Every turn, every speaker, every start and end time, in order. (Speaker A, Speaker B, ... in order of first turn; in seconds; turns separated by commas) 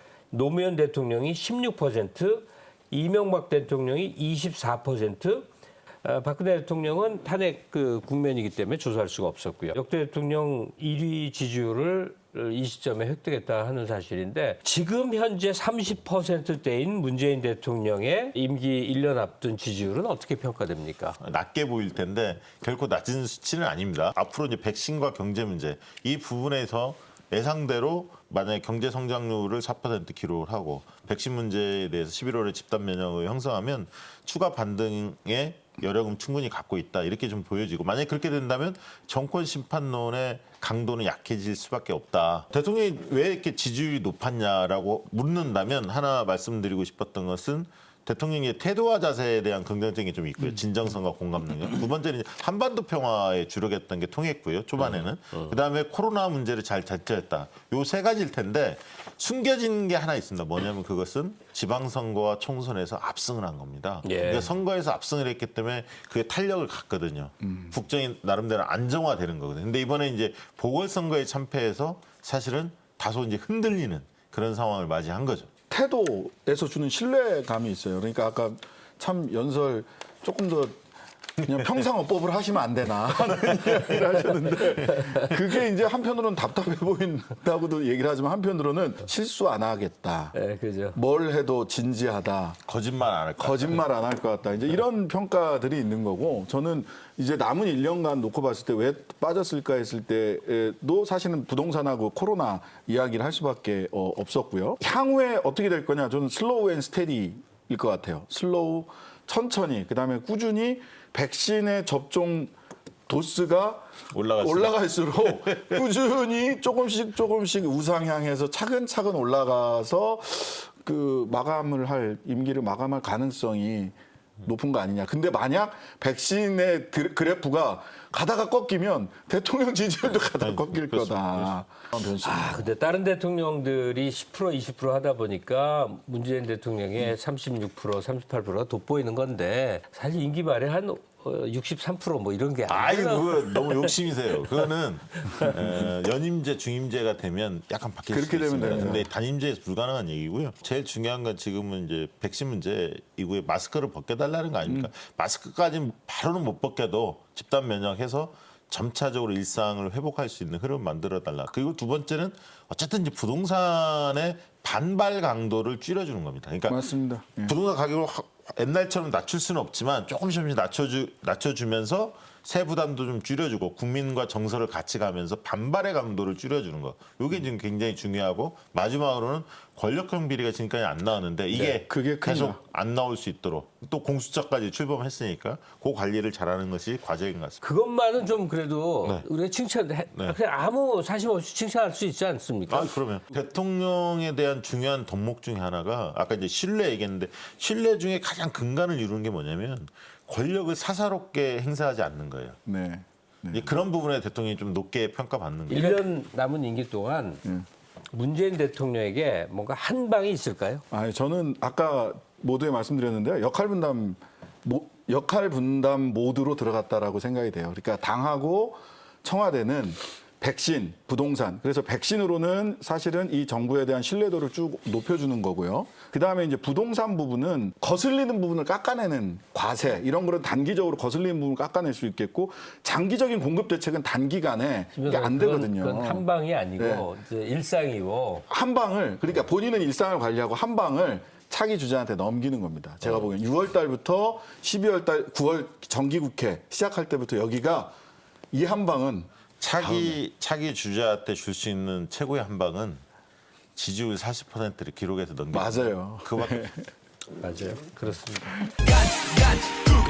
Speaker A: 0.3-5.5, Speaker A: 6.0-21.2, Speaker B: 21.2-75.5, Speaker A: 64.0-64.5, Speaker C: 75.7-80.8, Speaker C: 81.4-90.3, Speaker B: 83.5-84.0, Speaker A: 90.3-91.0, Speaker C: 90.9-92.6, Speaker B: 92.7-93.8, Speaker C: 93.4-112.5, Speaker C: 113.1-132.7, Speaker B: 114.1-115.8, Speaker B: 130.4-131.5, Speaker A: 132.2-143.9, Speaker B: 142.7-166.8, Speaker C: 148.1-149.1, Speaker C: 166.7-167.5, Speaker B: 167.4-187.6, Speaker C: 181.5-182.6, Speaker A: 187.6-192.9, Speaker B: 192.7-202.6, Speaker C: 202.6-203.8, Speaker B: 203.5-206.0, Speaker A: 205.7-207.4, Speaker A: 208.1-210.8, Speaker C: 210.9-236.2, Speaker A: 234.9-238.4, Speaker C: 236.8-237.1, Speaker C: 238.5-247.9, Speaker C: 248.5-250.2, Speaker B: 249.6-253.0, Speaker B: 253.8-256.6, Speaker C: 255.5-256.8, Speaker A: 257.4-258.6